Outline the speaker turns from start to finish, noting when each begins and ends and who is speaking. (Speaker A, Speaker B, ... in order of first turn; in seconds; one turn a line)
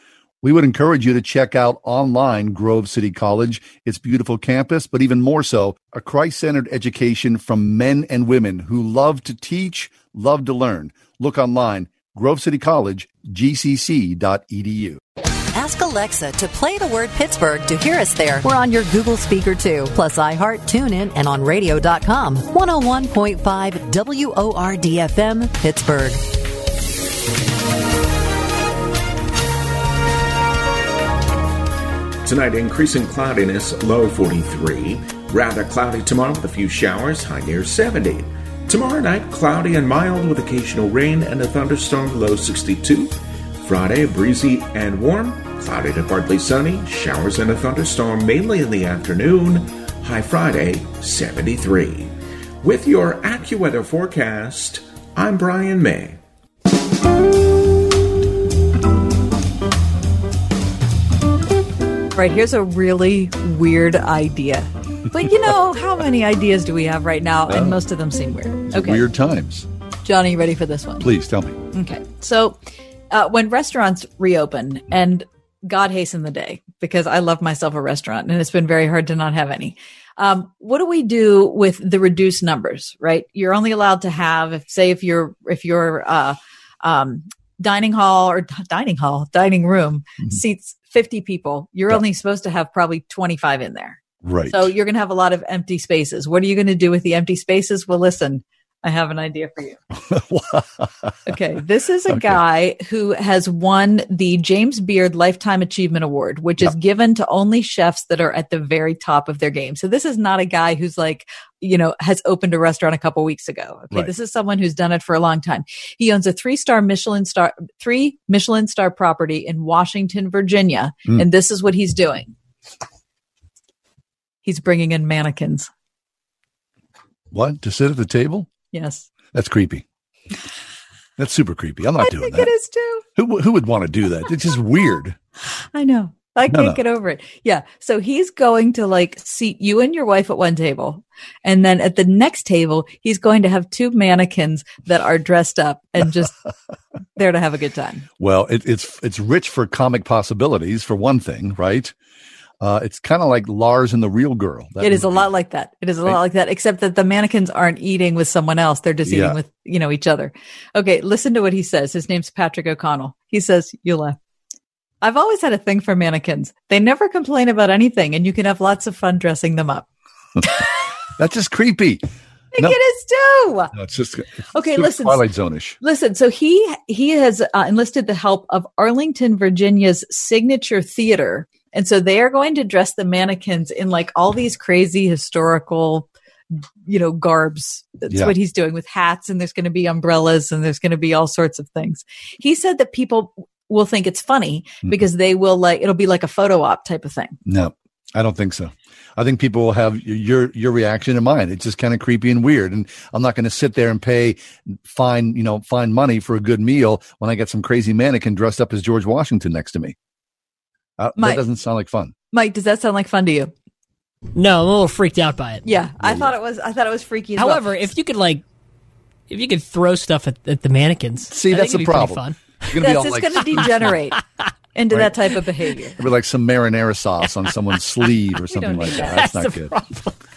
Speaker A: 0.4-15.0
Speaker B: 15.5-26.2
Speaker C: 32.2-56.2
Speaker D: 62.1-69.0
Speaker A: 67.5-67.8
Speaker A: 68.7-69.7
Speaker D: 70.0-71.1
Speaker A: 71.0-71.6
Speaker D: 71.7-99.8
Speaker A: 94.2-94.7
Speaker A: 100.0-101.2
Speaker D: 101.3-122.3
Speaker A: 102.1-102.4
Speaker D: 124.4-125.7
Speaker A: 127.3-128.5
Speaker D: 128.7-129.1
Speaker A: 129.3-129.8
Speaker A: 131.2-132.5
Speaker D: 132.0-133.0
Speaker A: 133.2-135.2
Speaker D: 135.7-146.3
Speaker A: 136.5-136.8
Speaker D: 147.2-148.1
Speaker A: 148.2-151.9
Speaker A: 152.6-155.3
Speaker D: 154.8-164.2
Speaker A: 159.1-159.4
Speaker D: 165.0-169.9
Speaker A: 171.2-172.1
Speaker D: 172.5-173.7
Speaker A: 173.7-175.8
Speaker D: 174.5-175.2
Speaker D: 175.8-197.4
Speaker A: 197.4-209.9
Speaker A: 211.0-212.1
Speaker D: 212.3-213.5
Speaker E: 214.4-215.7
Speaker D: 215.7-217.8
Speaker A: 216.0-216.3
Speaker E: 217.4-218.4
Speaker E: 219.3-222.7
Speaker A: 221.3-223.7
Speaker D: 222.8-224.2
Speaker E: 223.5-224.1
Speaker D: 224.8-226.0
Speaker A: 226.0-229.7
Speaker D: 228.5-229.4
Speaker E: 228.6-230.1